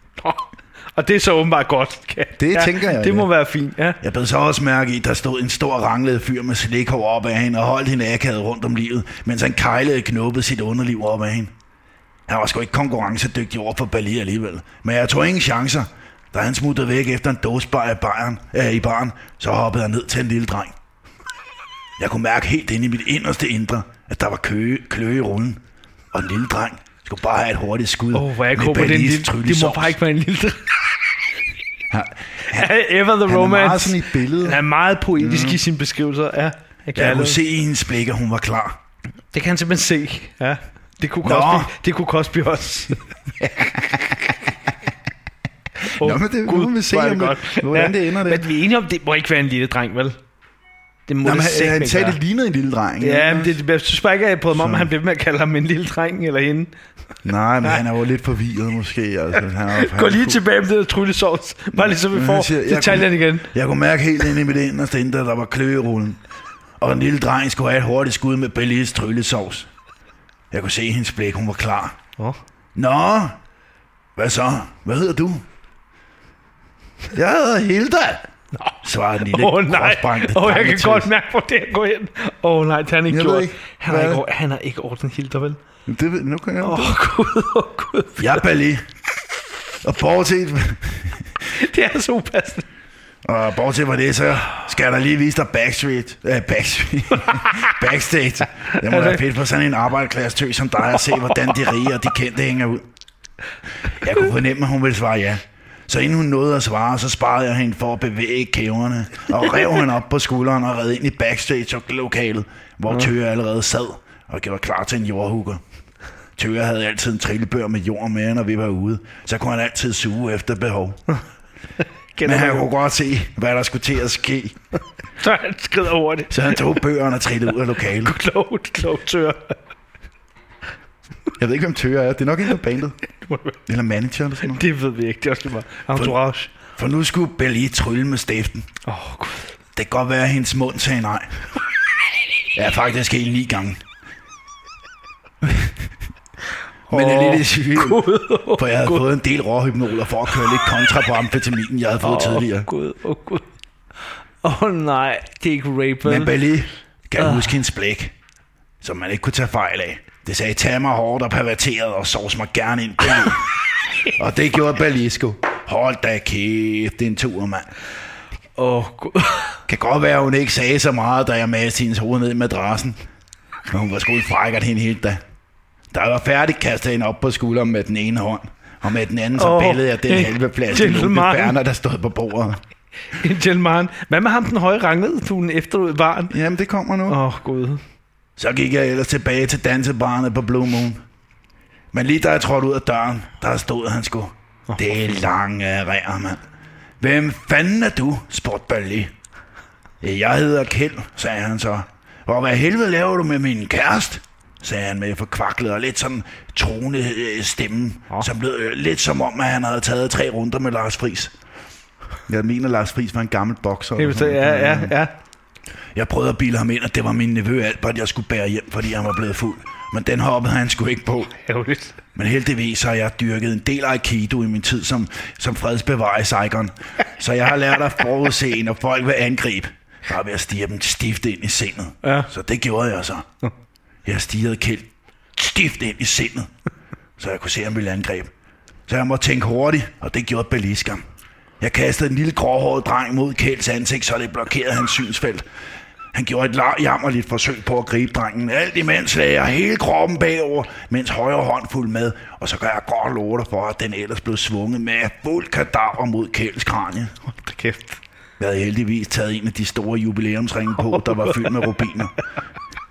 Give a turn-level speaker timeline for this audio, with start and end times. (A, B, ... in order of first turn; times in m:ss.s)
0:00.2-0:04.0 A
0:02.4-0:03.3 B
0:04.0-0:11.5 B
0:12.3-0:20.7 B
0:22.0-0:25.6 B
0:26.1-0:30.0 B
0:28.1-0:31.2 A
0:31.9-0:32.7 B
0:32.5-0:37.4 A
0:33.3-0:34.6 B
0:35.2-0:35.6 B
0:37.0-0:38.8 B
0:39.3-0:43.0 A
0:41.2-0:41.7 B
0:43.4-0:44.0 B
0:43.7-0:44.1 A
0:45.9-0:48.5 B
0:46.0-0:50.2 A
0:51.1-0:52.2 A
0:51.2-0:53.6 B
0:53.0-0:56.7 A
0:54.5-0:54.9 B
0:57.2-1:00.4 B
0:59.7-1:03.5 A
1:01.7-1:06.2 B
1:06.8-1:09.7 B
1:10.5-1:12.0 B
1:12.8-1:13.4 B
1:14.2-1:15.4 B
1:17.1-1:18.2 B
1:18.6-1:25.6 A
1:18.8-1:21.1 B
1:23.1-1:24.2 B
1:25.9-1:27.0 B
1:26.6-1:28.4 A
1:28.2-1:28.8 B
1:29.8-1:31.4 B
1:31.5-1:32.6 A
1:33.2-1:42.8 B
1:37.1-1:37.9 A
1:38.6-1:39.2 A
1:40.9-1:41.7 A
1:43.9-1:55.6 B
1:49.4-1:49.8 A
1:56.4-2:01.0 B
2:02.2-2:02.7 A
2:02.2-2:04.6 B
2:05.2-2:06.8 A
2:06.3-2:08.1 B
2:07.8-2:09.6 A
2:11.4-2:13.0 B
2:13.2-2:13.6 A
2:13.7-2:14.6 B
2:14.4-2:16.5 A
2:16.8-2:18.7 B
2:18.8-2:19.5 A
2:19.8-2:21.3 B
2:22.6-2:23.8 B
2:25.4-2:25.8 B
2:26.9-2:29.1 A
2:26.9-2:32.7 B
2:30.3-2:30.6 A
2:32.0-2:33.4 A
2:34.4-2:36.3 A
2:36.0-2:38.1 B
2:37.2-2:37.6 A
2:38.8-2:47.7 B
2:48.6-2:49.6 A
2:49.7-2:53.0 B
2:53.7-2:55.2 B
2:55.9-3:02.6 B
2:59.4-3:01.6 A
3:03.2-3:06.4 A
3:06.3-3:07.2 B
3:07.1-3:07.8 A
3:08.4-3:11.0 B
3:11.9-3:16.4 B
3:14.7-3:15.0 A
3:17.0-3:19.1 B
3:20.0-3:31.3 B
3:32.3-3:35.0 B
3:34.0-3:35.1 A
3:36.0-3:41.3 B
3:41.4-3:42.0 A
3:42.2-3:53.2 B
3:52.0-3:52.3 A
3:54.0-3:56.5 B
3:57.2-3:58.3 B
3:58.9-4:01.0 B
4:01.6-4:05.4 B
4:06.1-4:17.1 B
4:17.3-4:18.0 A
4:18.4-4:22.1 B
4:20.8-4:21.8 A